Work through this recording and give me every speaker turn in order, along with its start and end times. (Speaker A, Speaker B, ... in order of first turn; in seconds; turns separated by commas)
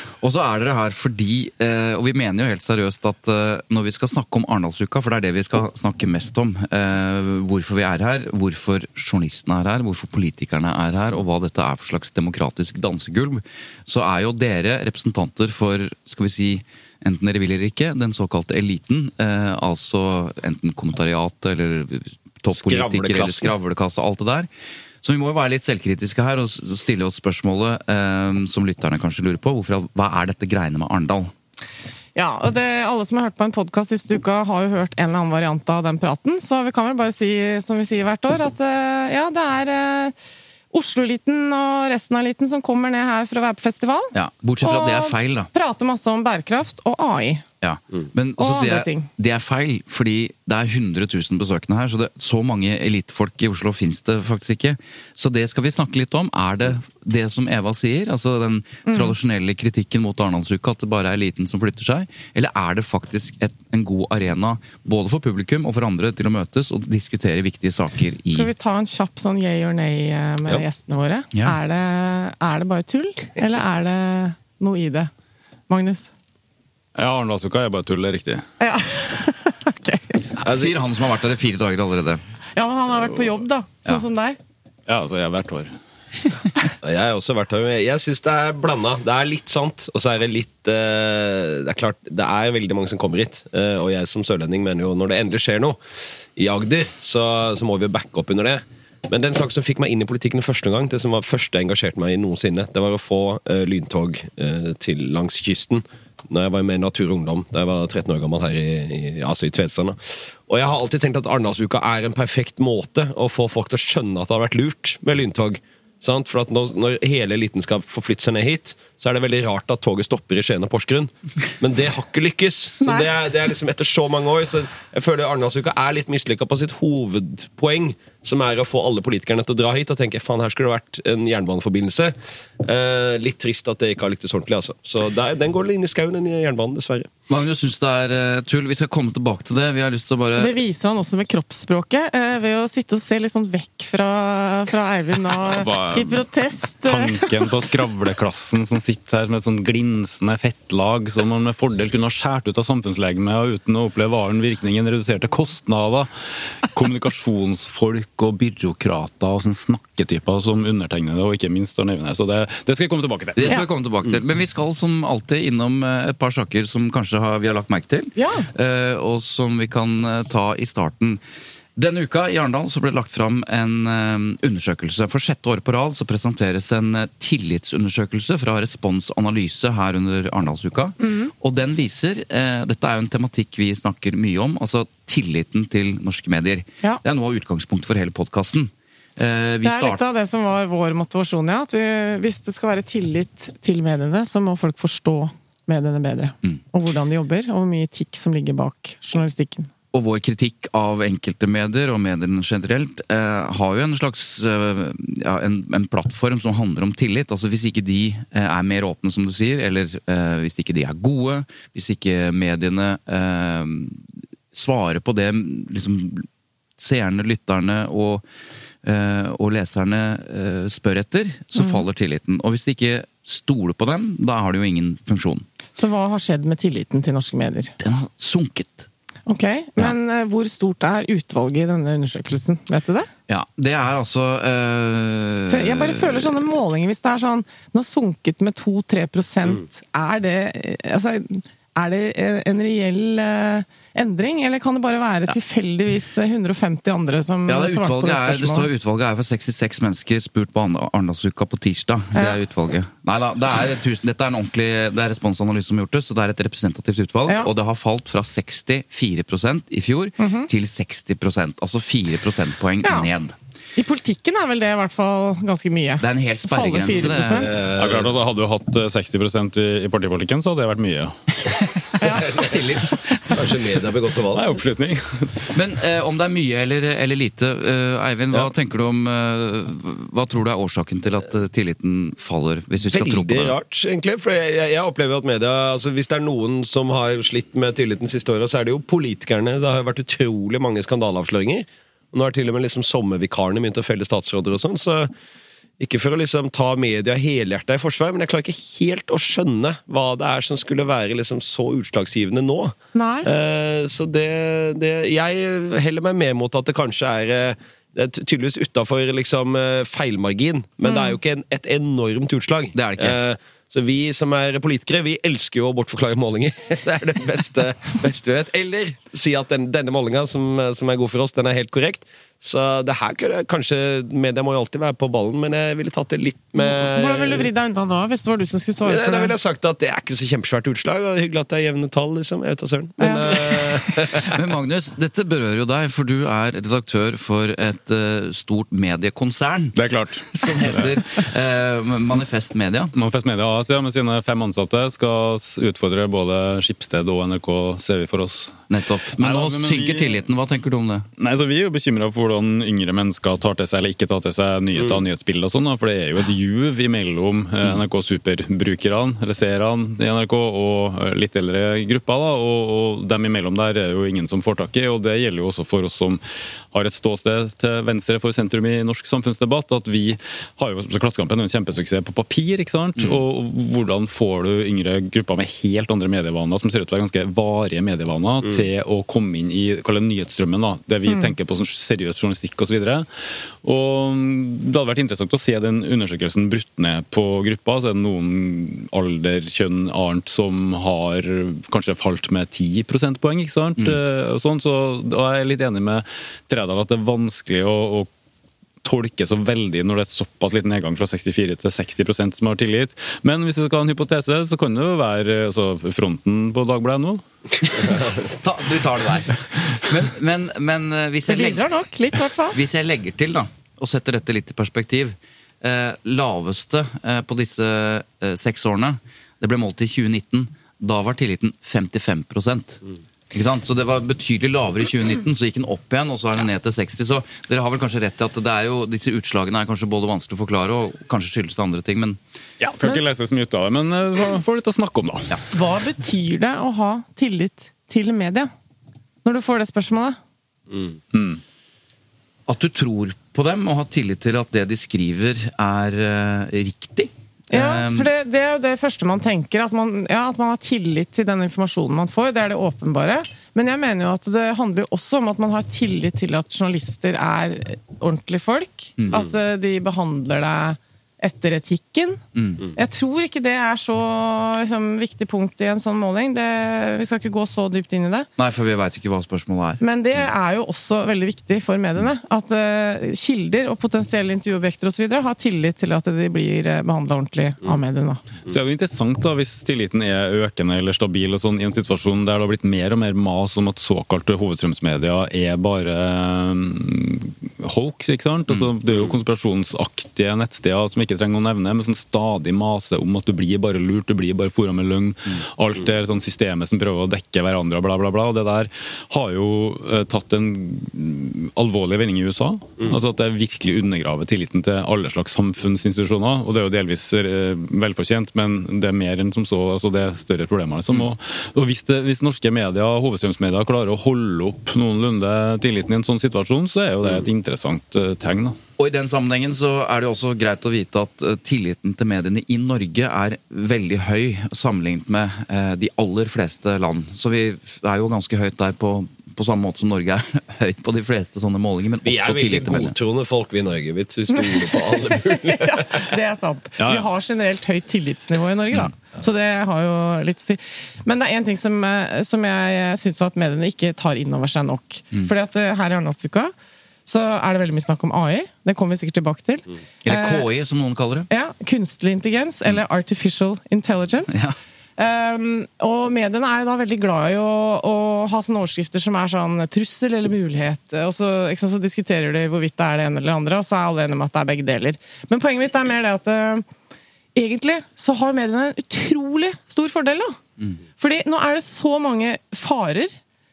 Speaker A: 0.2-24.5, Speaker B: 22.5-23.5, Speaker A: 25.0-31.3, Speaker C: 32.1-40.1, Speaker C: 40.7-47.4, Speaker A: 44.1-45.5, Speaker A: 47.6-68.5, Speaker C: 48.4-49.1, Speaker C: 58.9-59.1, Speaker C: 68.3-75.1, Speaker C: 75.7-76.1, Speaker D: 77.0-78.5, Speaker C: 78.6-80.3, Speaker A: 80.4-82.2, Speaker B: 80.4-80.7, Speaker C: 82.5-84.4, Speaker D: 84.9-85.7, Speaker B: 86.8-95.8, Speaker B: 96.3-137.1, Speaker A: 137.3-140.6, Speaker C: 140.4-147.3, Speaker A: 145.4-146.2, Speaker D: 146.9-163.5, Speaker A: 163.3-171.2, Speaker C: 168.2-168.5, Speaker A: 171.8-190.0, Speaker C: 181.0-181.3, Speaker C: 189.6-199.7, Speaker A: 199.9-216.3, Speaker A: 216.8-218.2, Speaker A: 218.8-225.4, Speaker C: 221.6-221.8, Speaker C: 225.8-227.7, Speaker A: 227.8-228.9, Speaker C: 229.3-233.1, Speaker A: 233.3-236.3, Speaker C: 235.5-248.7, Speaker A: 247.5-263.3, Speaker C: 260.2-260.5, Speaker C: 262.8-263.1, Speaker C: 263.8-267.5, Speaker A: 266.0-267.6, Speaker B: 266.9-268.1, Speaker D: 267.8-271.2, Speaker C: 272.0-272.4, Speaker A: 272.2-273.2, Speaker B: 272.3-272.8, Speaker B: 273.3-274.4, Speaker D: 274.3-275.6, Speaker A: 275.5-283.5, Speaker B: 282.9-295.1, Speaker B: 295.8-327.5, Speaker C: 302.9-303.3, Speaker C: 310.8-311.2, Speaker A: 312.7-313.2, Speaker C: 326.5-329.3, Speaker B: 328.8-334.4, Speaker C: 333.0-333.3, Speaker A: 334.1-339.8, Speaker D: 339.8-340.9, Speaker A: 340.3-342.9, Speaker D: 342.9-348.5, Speaker A: 348.7-351.1, Speaker D: 349.2-350.2, Speaker D: 351.2-366.2, Speaker D: 366.7-398.1, Speaker D: 398.8-407.2, Speaker A: 408.2-411.6, Speaker C: 411.3-412.6, Speaker A: 412.5-432.2, Speaker D: 432.6-435.4, Speaker C: 435.5-438.5, Speaker C: 439.2-440.2, Speaker D: 441.1-441.4, Speaker A: 442.5-448.1, Speaker C: 447.5-462.2, Speaker A: 459.0-459.2, Speaker A: 462.3-462.6, Speaker C: 462.7-468.3, Speaker A: 468.4-469.8, Speaker C: 469.8-478.2, Speaker D: 478.5-518.6, Speaker A: 518.8-532.9, Speaker B: 532.0-536.1, Speaker C: 535.5-546.5, Speaker D: 536.8-537.0, Speaker C: 547.0-550.5, Speaker A: 550.0-551.3, Speaker C: 551.3-554.4, Speaker A: 554.3-554.5, Speaker C: 555.0-566.7, Speaker C: 567.3-570.4, Speaker C: 571.0-573.2